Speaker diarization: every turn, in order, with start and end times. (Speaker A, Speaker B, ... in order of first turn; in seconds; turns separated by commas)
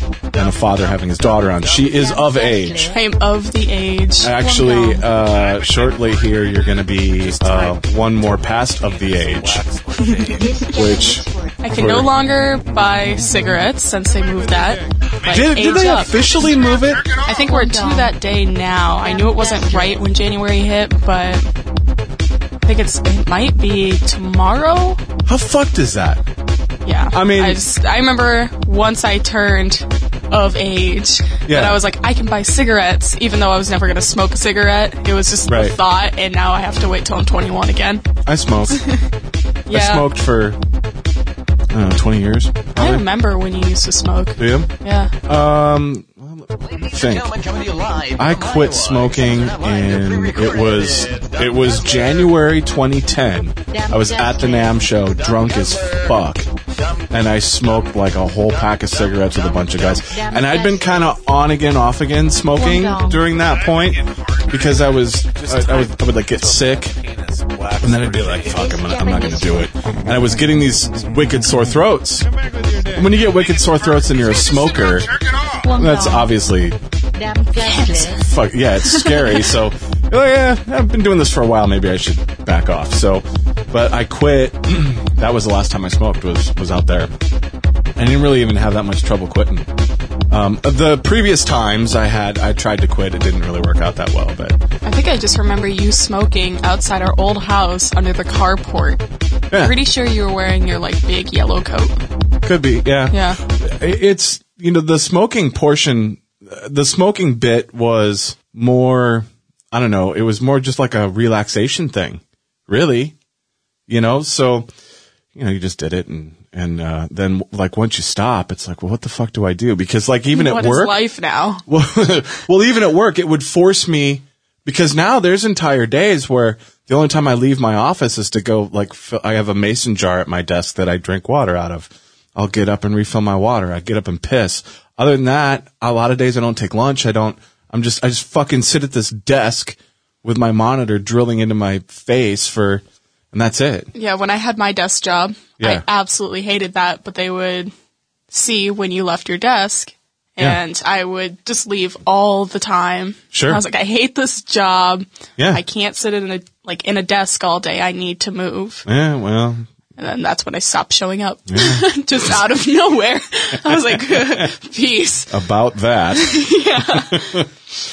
Speaker A: 0.3-1.9, Speaker B: 0.3-2.9, Speaker C: 1.8-3.0, Speaker D: 2.9-4.3, Speaker B: 4.2-9.6, Speaker C: 4.4-5.1, Speaker E: 5.1-6.7, Speaker F: 7.1-10.7, Speaker D: 9.9-10.4, Speaker C: 10.3-11.6, Speaker B: 10.7-12.1, Speaker D: 11.6-16.4, Speaker E: 14.1-17.2, Speaker B: 15.3-17.1, Speaker D: 17.2-21.4, Speaker C: 17.3-18.1, Speaker C: 19.0-20.0, Speaker D: 22.6-25.0, Speaker B: 25.2-26.2, Speaker D: 26.8-38.0, Speaker B: 27.1-27.6, Speaker B: 31.5-31.8, Speaker B: 35.5-35.8, Speaker B: 38.2-38.8, Speaker D: 38.7-39.0, Speaker D: 39.7-40.1, Speaker B: 39.7-40.6, Speaker B: 41.7-43.0, Speaker D: 42.7-45.1, Speaker B: 44.4-44.7, Speaker B: 45.3-47.3, Speaker A: 46.6-52.3, Speaker B: 48.2-56.5, Speaker C: 53.7-54.8, Speaker A: 55.1-56.2, Speaker A: 56.7-60.0, Speaker B: 57.1-66.9, Speaker C: 60.0-61.1, Speaker C: 62.5-63.2, Speaker E: 63.4-65.0, Speaker F: 65.3-69.1, Speaker B: 67.8-72.3, Speaker C: 68.6-69.7, Speaker E: 72.2-75.6, Speaker B: 72.9-75.1, Speaker C: 75.6-76.3, Speaker B: 75.8-76.8, Speaker C: 77.1-78.3, Speaker D: 77.6-78.2, Speaker B: 78.2-87.1, Speaker D: 78.8-79.5, Speaker B: 88.0-89.7, Speaker B: 90.3-94.6, Speaker D: 94.8-99.0, Speaker D: 99.6-102.0, Speaker B: 102.4-113.1, Speaker D: 103.1-103.4, Speaker B: 113.9-114.7, Speaker B: 115.3-121.0, Speaker D: 120.3-121.7, Speaker B: 121.7-143.9, Speaker D: 143.9-147.7, Speaker D: 148.3-158.8, Speaker B: 153.3-153.6, Speaker B: 158.8-159.7, Speaker D: 160.0-165.3, Speaker B: 161.5-161.8, Speaker B: 163.6-164.5, Speaker B: 165.3-167.5, Speaker D: 166.1-167.4